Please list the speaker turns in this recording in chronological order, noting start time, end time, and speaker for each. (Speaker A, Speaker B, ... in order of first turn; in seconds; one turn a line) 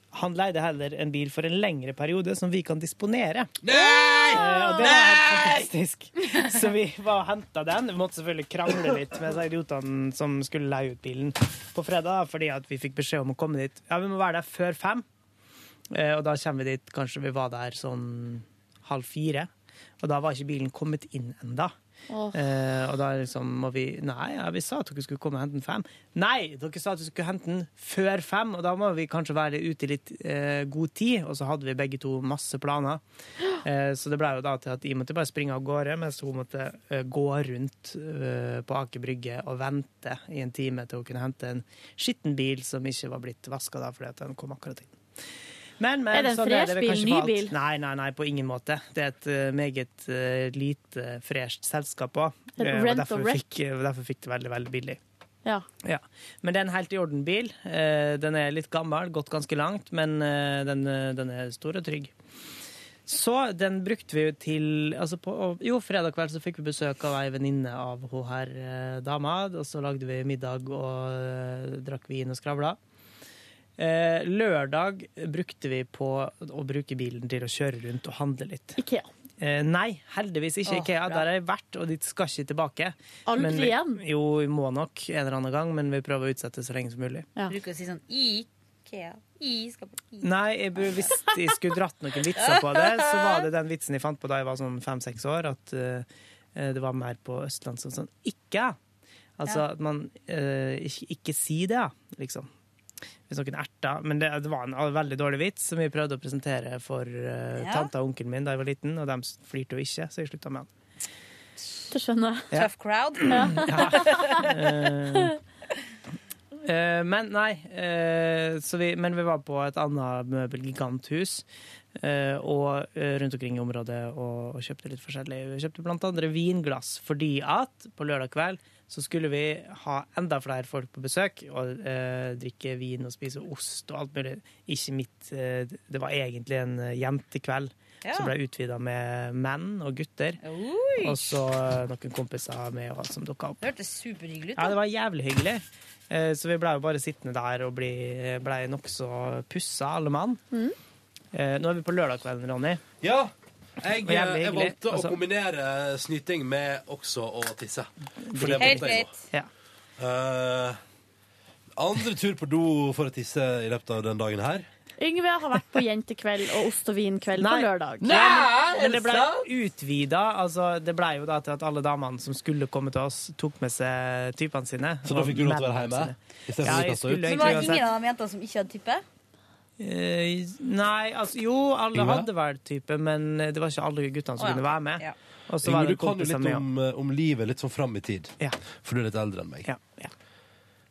Speaker A: 0.1-3.5
Speaker B: 3.6-5.7
Speaker A: 4.3-15.0
Speaker C: 4.4-4.9
Speaker A: 15.9-19.5
Speaker A: 20.0-21.7
Speaker C: 22.1-22.4
Speaker A: 22.3-33.0
Speaker A: 33.6-45.0
Speaker A: 45.8-55.0
Speaker C: 46.1-47.5
Speaker C: 52.6-53.4
Speaker A: 55.8-62.1
Speaker A: 63.1-72.8
Speaker A: 73.8-78.8
Speaker C: 78.8-79.1
Speaker A: 79.4-87.3
Speaker D: 80.7-81.2
Speaker C: 83.3-84.0
Speaker D: 87.5-91.0
Speaker A: 90.2-98.8
Speaker D: 92.3-93.4
Speaker A: 99.4-102.5
Speaker A: 103.3-110.7
Speaker D: 107.6-107.9
Speaker C: 111.9-112.5
Speaker D: 112.5-114.5
Speaker A: 113.2-115.4
Speaker A: 116.6-121.4
Speaker A: 122.0-140.4
Speaker D: 138.0-138.3
Speaker D: 140.4-141.4
Speaker A: 141.0-143.6
Speaker D: 143.6-144.8
Speaker A: 144.6-150.4
Speaker A: 151.3-152.8
Speaker B: 153.0-159.1
Speaker A: 154.0-155.2
Speaker A: 158.2-159.5
Speaker D: 158.6-159.3
Speaker B: 160.0-160.8
Speaker B: 161.8-164.7
Speaker C: 165.0-168.1
Speaker A: 167.4-177.8
Speaker B: 168.0-169.5
Speaker B: 175.1-177.8
Speaker D: 177.2-179.0
Speaker A: 179.8-186.6
Speaker B: 181.9-182.3
Speaker D: 184.4-185.1
Speaker B: 185.6-189.7
Speaker A: 189.6-190.1